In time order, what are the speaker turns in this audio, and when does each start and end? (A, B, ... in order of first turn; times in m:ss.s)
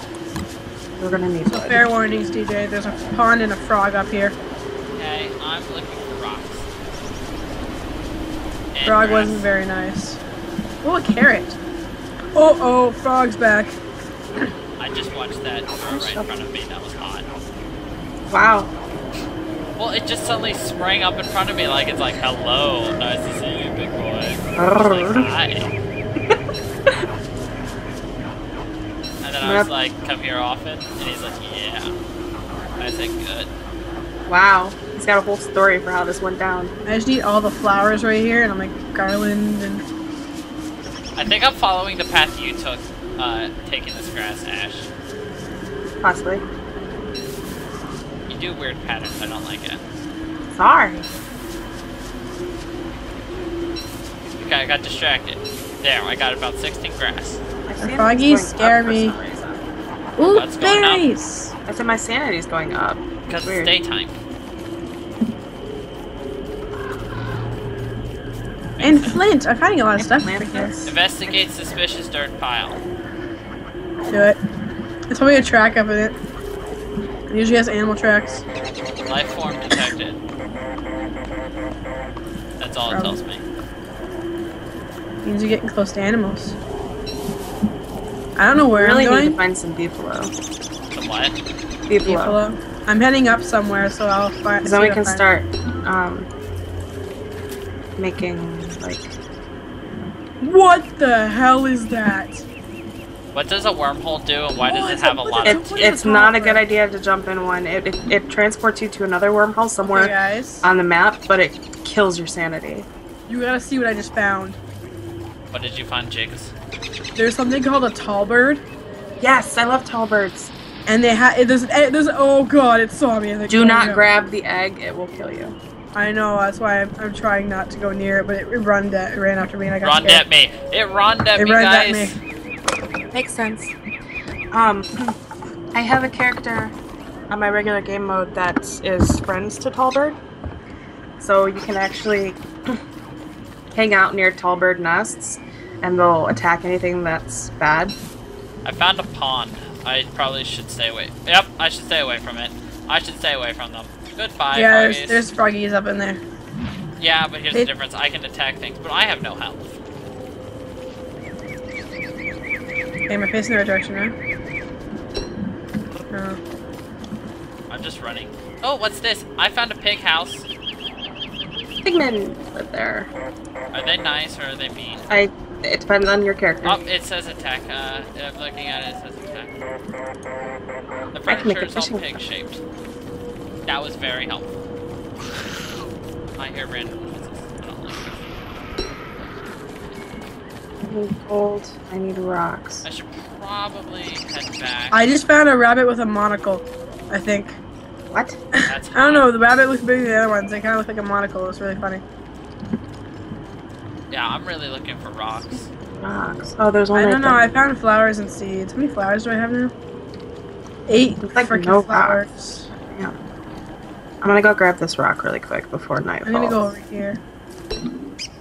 0:01.0-0:01.9 A
0:01.5-0:04.4 B
0:04.9-0:06.7 C
0:08.7-0:09.5 C
0:08.8-0:10.2 B
0:10.8-0:11.6 B
0:12.3-0:13.8 B
0:14.8-0:17.2 C
0:15.9-0:16.3 A
0:18.3-0:18.7 A
0:19.8-0:25.7 C
0:24.6-0:25.3 A
0:29.2-0:32.0 C
0:29.4-0:29.7 A
0:32.8-0:33.5 C
0:34.3-0:36.7 A
0:36.8-0:39.8 B
0:41.2-0:44.9 C
0:46.0-0:46.4 A
0:48.3-0:49.8 C
0:50.5-0:51.1 A
0:54.4-0:57.4 C
0:57.6-0:59.6 A
0:57.8-0:59.2 B
1:00.2-1:01.5 B
1:00.2-1:01.0 C
1:01.6-1:03.7 A
1:03.3-1:04.1 C
1:08.7-1:09.2 C
1:08.8-1:10.7 B
1:10.0-1:11.4 A
1:10.8-1:12.8 C
1:14.1-1:14.4 B
1:15.1-1:16.2 B
1:17.3-1:18.4 B
1:19.0-1:20.2 C
1:22.6-1:23.4 C
1:22.9-1:23.2 B
1:25.2-1:26.6 B
1:28.4-1:29.4 B
1:28.7-1:30.3 A
1:30.9-1:31.4 C
1:31.9-1:32.4 A
1:32.0-1:35.2 B
1:34.6-1:36.3 A
1:38.0-1:39.2 A
1:40.4-1:42.4 B
1:43.3-1:45.9 C
1:44.6-1:46.6 B
1:45.4-1:52.9 A
1:49.8-1:50.7 B
1:53.3-1:54.6 B
1:55.5-1:56.5 C
1:57.1-1:58.6 B
1:59.2-2:00.5 A
2:00.8-2:04.1 B
2:03.5-2:05.6 A
2:05.9-2:10.2 B
2:09.8-2:12.2 C
2:11.4-2:12.2 B
2:13.1-2:13.7 A
2:14.5-2:15.2 A
2:15.7-2:16.8 A
2:17.3-2:20.2 A
2:21.2-2:22.8 A
2:23.7-2:28.0 A
2:28.6-2:35.2 C
2:34.5-2:36.2 B
2:37.0-2:39.8 C
2:43.1-2:44.1 B
2:46.1-2:46.4 B
2:47.7-2:50.5 C
2:51.8-2:53.1 A
2:53.7-2:55.1 C
2:55.1-2:56.8 A
2:56.6-2:59.6 C
3:01.1-3:02.6 C
3:01.2-3:02.2 A
3:03.6-3:04.5 C
3:06.4-3:08.6 C
3:10.8-3:12.8 A
3:12.8-3:15.0 C
3:14.9-3:17.6 B
3:18.1-3:18.4 A
3:18.5-3:22.0 B
3:18.6-3:19.3 C
3:24.1-3:25.7 C
3:25.3-3:27.4 A
3:26.9-3:29.7 B
3:30.9-3:32.7 B
3:31.2-3:33.2 A
3:34.2-3:36.7 A
3:36.2-3:37.2 B